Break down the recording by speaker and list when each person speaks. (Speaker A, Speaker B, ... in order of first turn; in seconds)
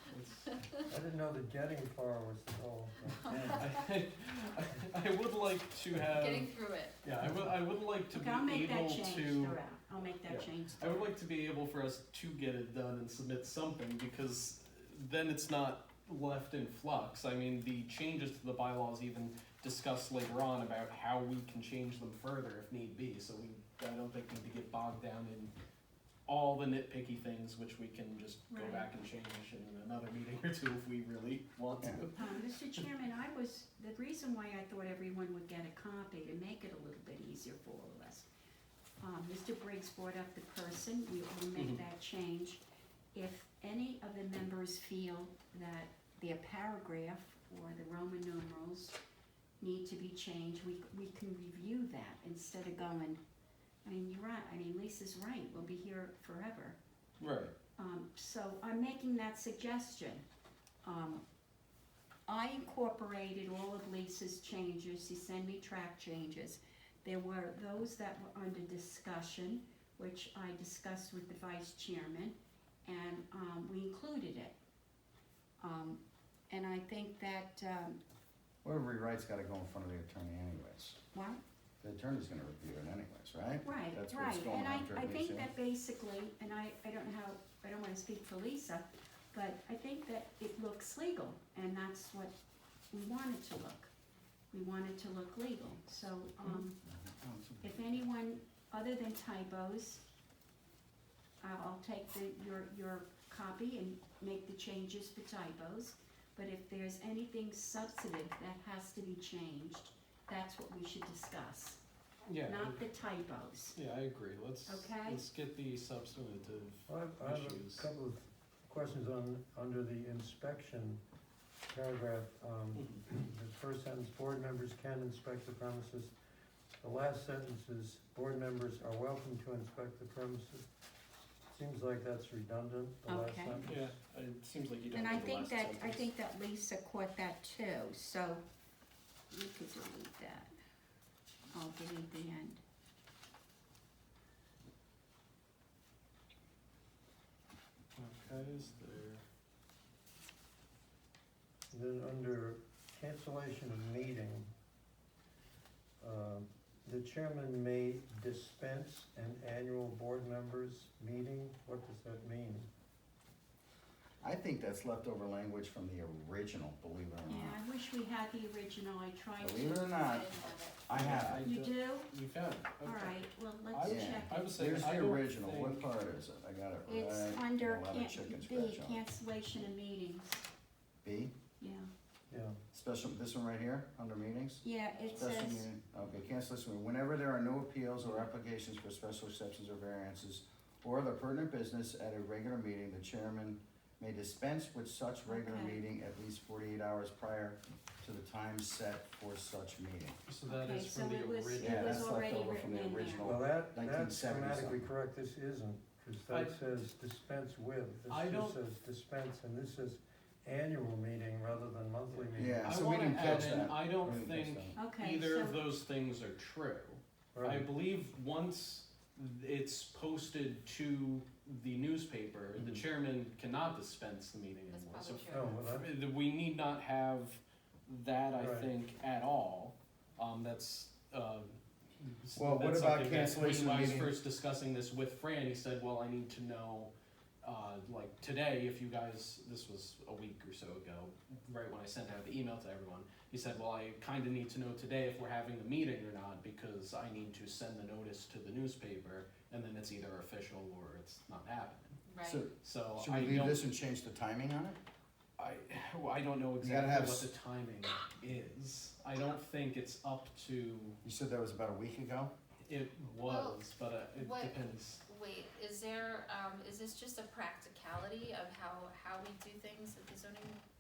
Speaker A: 0.1-0.4, 3.5-6.5, 7.0-9.6, 10.2-25.5, 26.3-32.8, 41.5-41.8, 57.2-57.5, 112.3-112.8, 113.7-117.9, 122.7-123.0, 133.6-136.1, 147.9-149.2, 170.9-175.9, 200.2-202.2, 206.3-206.6, 208.1-208.6, 212.6-252.0, 252.6-253.6, 255.4-261.0, 262.6-265.0
Speaker B: 0.9-3.7, 116.9-121.0, 121.7-126.1, 126.8-130.7, 131.5-134.0, 151.7-154.5, 156.0-162.7, 182.3-182.6, 203.2-213.6, 217.3-217.7, 225.3-225.9, 228.3-228.7
Speaker C: 3.1-3.8, 6.0-7.0, 170.0-170.8, 224.7-225.6, 252.1-252.4, 263.2-270.6
Speaker D: 8.1-11.0, 28.5-28.9, 32.1-38.3, 39.0-42.6, 43.1-49.0, 49.6-53.2, 53.8-56.8, 57.8-60.2, 60.8-61.2, 62.3-74.5, 75.6-78.0, 81.1-81.4, 83.6-92.3, 92.9-93.9, 94.5-96.8, 97.6-100.0, 101.4-111.8, 112.4-113.8, 114.7-115.2, 133.1-133.6, 134.9-138.4, 139.3-140.5, 141.5-142.6, 167.3-170.6, 171.4-172.1, 172.8-175.0, 176.9-180.4, 181.6-181.9, 184.6-185.7, 195.3-195.8, 200.4-203.3, 214.8-215.6
Speaker E: 31.8-32.0, 78.6-81.0, 81.8-85.5, 96.8-97.8, 164.2-167.6, 169.4-170.3, 170.8-171.4, 173.8-179.0, 181.0-181.3, 182.7-184.6, 185.2-200.2, 201.6-204.8, 212.3-214.8, 222.6-222.8, 232.3-234.1, 252.2-254.8, 256.6-257.3, 261.0-262.3